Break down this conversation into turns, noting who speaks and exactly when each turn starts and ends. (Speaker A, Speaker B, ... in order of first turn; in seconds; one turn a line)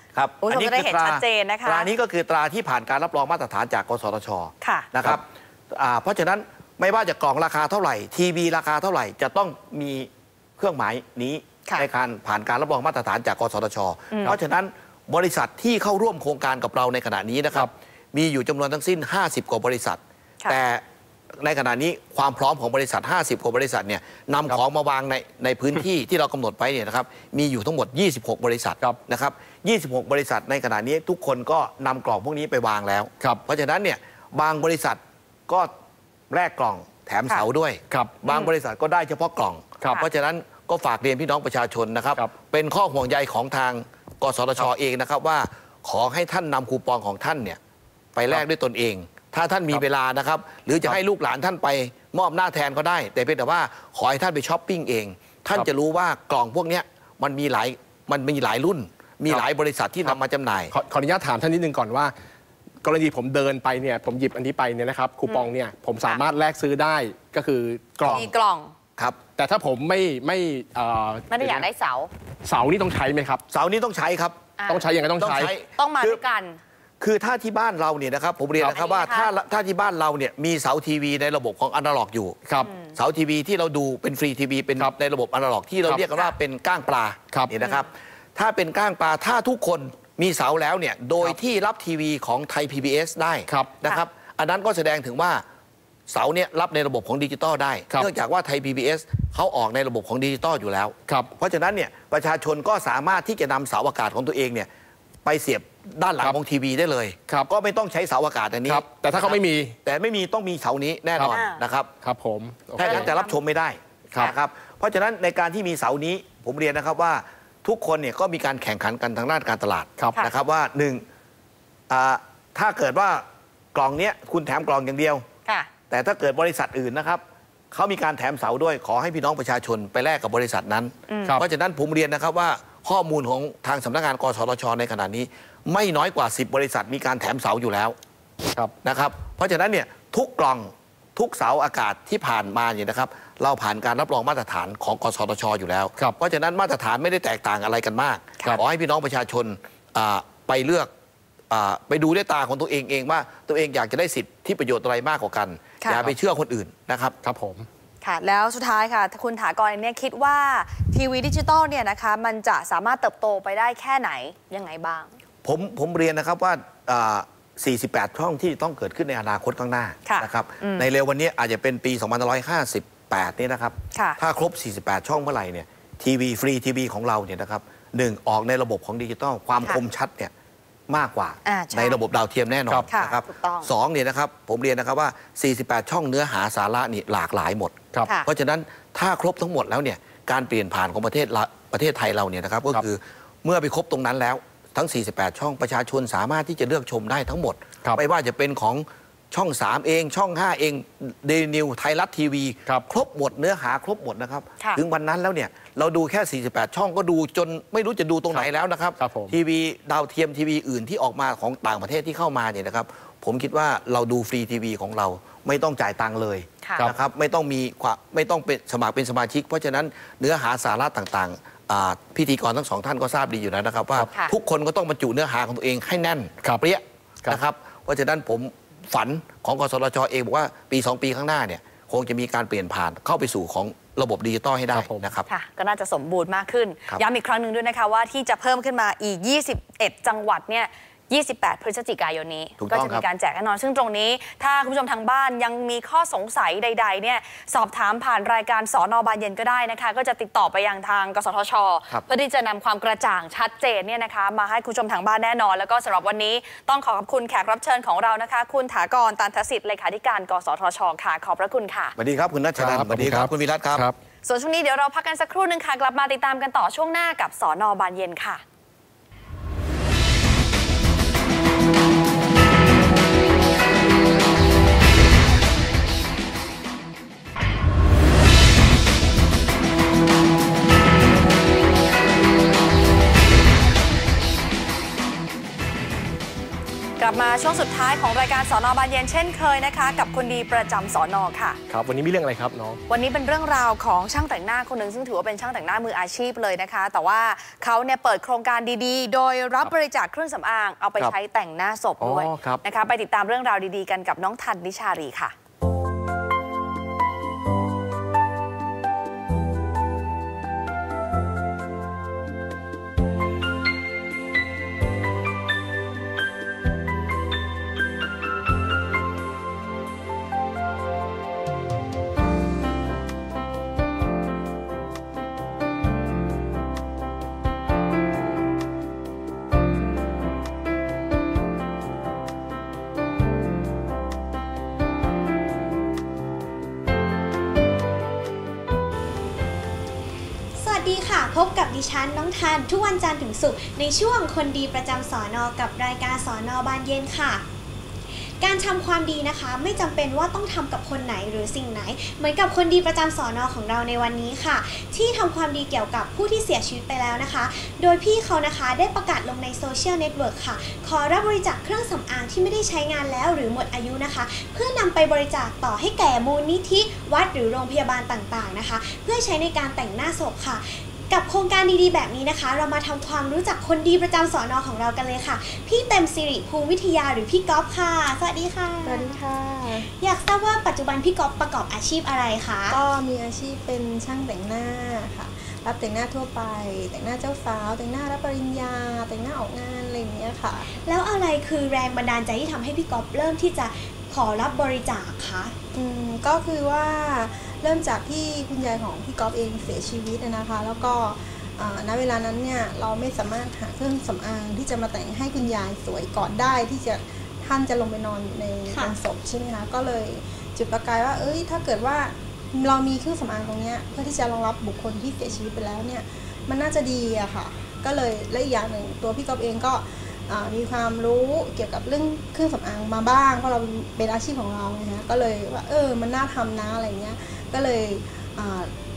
Speaker A: 0.1-20.8
Speaker B: 0.4-1.9
Speaker B: 4.6-4.9
Speaker B: 14.1-14.4
Speaker A: 21.4-35.7
Speaker A: 36.3-47.6
Speaker C: 37.9-38.2
Speaker A: 48.1-60.7
Speaker C: 60.7-62.1
Speaker C: 62.8-68.2
Speaker A: 68.0-68.3
Speaker B: 68.1-68.8
Speaker C: 69.4-71.7
Speaker B: 71.3-72.1
Speaker C: 72.5-73.4
Speaker A: 73.5-74.4
Speaker B: 74.6-74.9
Speaker C: 74.7-75.5
Speaker A: 75.2-76.2
Speaker B: 75.8-76.6
Speaker A: 77.0-82.4
Speaker B: 78.7-79.3
Speaker C: 82.5-82.7
Speaker B: 82.6-83.0
Speaker A: 82.9-95.4
Speaker B: 87.6-87.9
Speaker C: 93.5-93.8
Speaker A: 96.1-104.7
Speaker C: 101.1-101.3
Speaker A: 105.2-111.9
Speaker C: 108.7-109.8
Speaker B: 111.3-111.6
Speaker C: 112.0-113.1
Speaker A: 112.8-121.0
Speaker B: 112.8-113.4
Speaker A: 121.9-125.2
Speaker B: 125.5-125.7
Speaker A: 125.9-138.0
Speaker B: 131.1-131.4
Speaker A: 138.8-150.9
Speaker A: 151.5-157.2
Speaker C: 157.2-157.7
Speaker B: 158.0-165.2
Speaker A: 165.4-180.3
Speaker B: 170.1-170.9
Speaker B: 173.9-174.2
Speaker A: 180.9-235.3
Speaker B: 181.4-182.0
Speaker B: 182.9-183.7
Speaker C: 208.3-209.4
Speaker B: 216.6-216.9
Speaker C: 226.4-227.4
Speaker C: 234.7-235.1
Speaker B: 235.3-261.9
Speaker A: 242.6-243.1
Speaker A: 262.0-263.9
Speaker C: 262.6-264.0
Speaker B: 264.2-268.4
Speaker B: 287.0-291.6
Speaker C: 291.7-292.8
Speaker B: 292.9-305.4
Speaker C: 302.0-302.6
Speaker D: 340.6-347.4
Speaker D: 348.1-379.2
Speaker E: 378.8-379.9
Speaker D: 380.0-382.8
Speaker E: 382.7-390.8
Speaker D: 390.7-395.6
Speaker E: 395.7-428.7
Speaker D: 408.7-409.0